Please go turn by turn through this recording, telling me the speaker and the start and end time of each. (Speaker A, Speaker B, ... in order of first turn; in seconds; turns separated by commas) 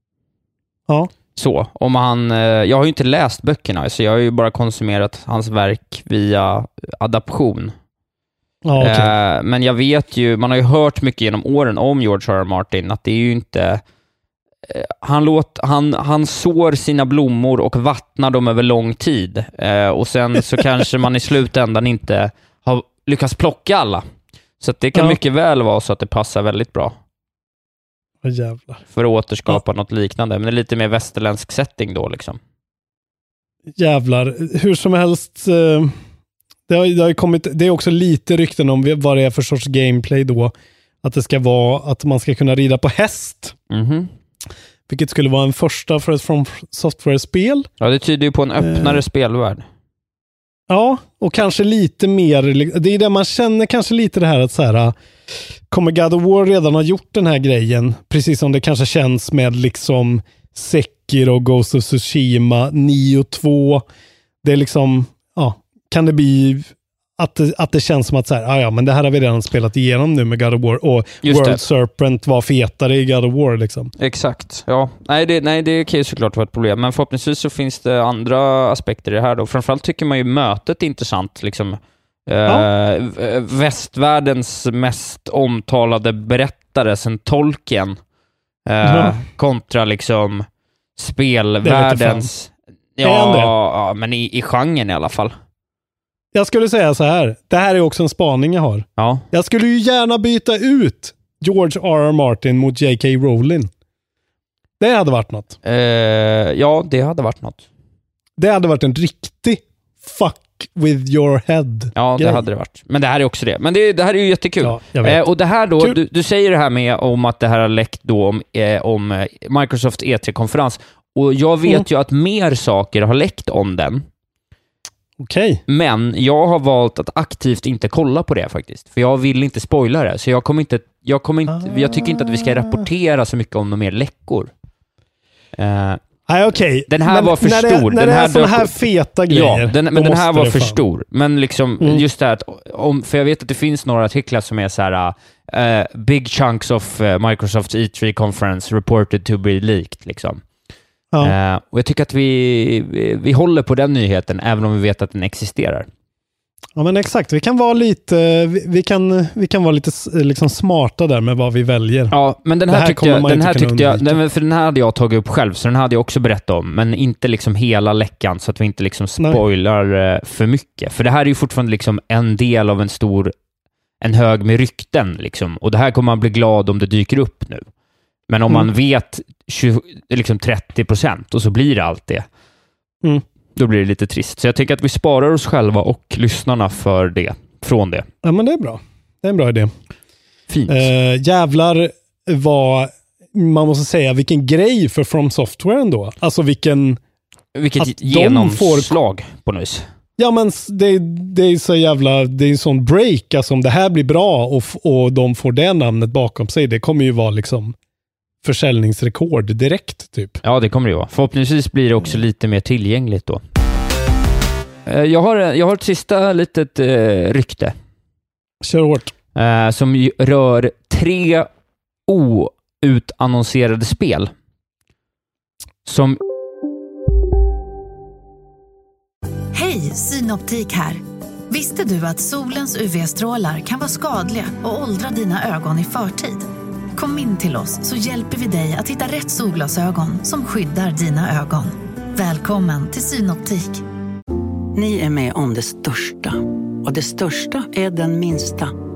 Speaker A: 1.3-7.7, Speaker B: 8.6-9.1, Speaker A: 8.8-13.8, Speaker A: 14.7-24.0, Speaker A: 24.6-26.9, Speaker B: 24.9-25.2, Speaker B: 28.2-28.8, Speaker A: 28.9-32.4, Speaker B: 33.7-35.9, Speaker B: 36.7-43.5, Speaker A: 43.7-44.1, Speaker B: 44.9-47.7, Speaker A: 47.8-49.6, Speaker B: 48.6-49.0, Speaker B: 50.7-54.9, Speaker B: 55.7-63.8, Speaker B: 64.4-73.9, Speaker A: 71.2-71.6, Speaker A: 74.0-88.0, Speaker A: 88.7-90.5, Speaker B: 88.8-89.2, Speaker A: 91.0-95.3, Speaker B: 91.6-92.3, Speaker B: 93.0-93.5, Speaker B: 96.3-103.7, Speaker A: 99.0-99.2, Speaker B: 104.8-105.5, Speaker A: 105.6-107.6, Speaker B: 108.4-112.4, Speaker A: 112.0-124.0, Speaker B: 114.6-115.2, Speaker B: 125.2-125.6, Speaker A: 125.7-134.5, Speaker B: 131.5-132.8, Speaker A: 135.6-136.0, Speaker B: 136.3-140.8, Speaker A: 136.9-150.4, Speaker A: 151.2-155.9, Speaker B: 156.8-162.2, Speaker A: 162.1-173.3, Speaker B: 162.7-164.2, Speaker A: 174.0-177.6, Speaker A: 178.3-182.3, Speaker A: 183.6-188.1, Speaker B: 188.2-189.7, Speaker A: 190.5-190.9, Speaker B: 190.7-197.0, Speaker A: 197.6-199.8, Speaker B: 197.8-198.9, Speaker B: 200.2-207.7, Speaker B: 208.4-210.4, Speaker A: 210.4-213.4, Speaker A: 214.9-217.7, Speaker B: 218.6-219.1, Speaker A: 219.3-221.5, Speaker A: 222.1-224.3, Speaker A: 225.9-226.2, Speaker C: 229.5-243.8, Speaker D: 244.7-248.7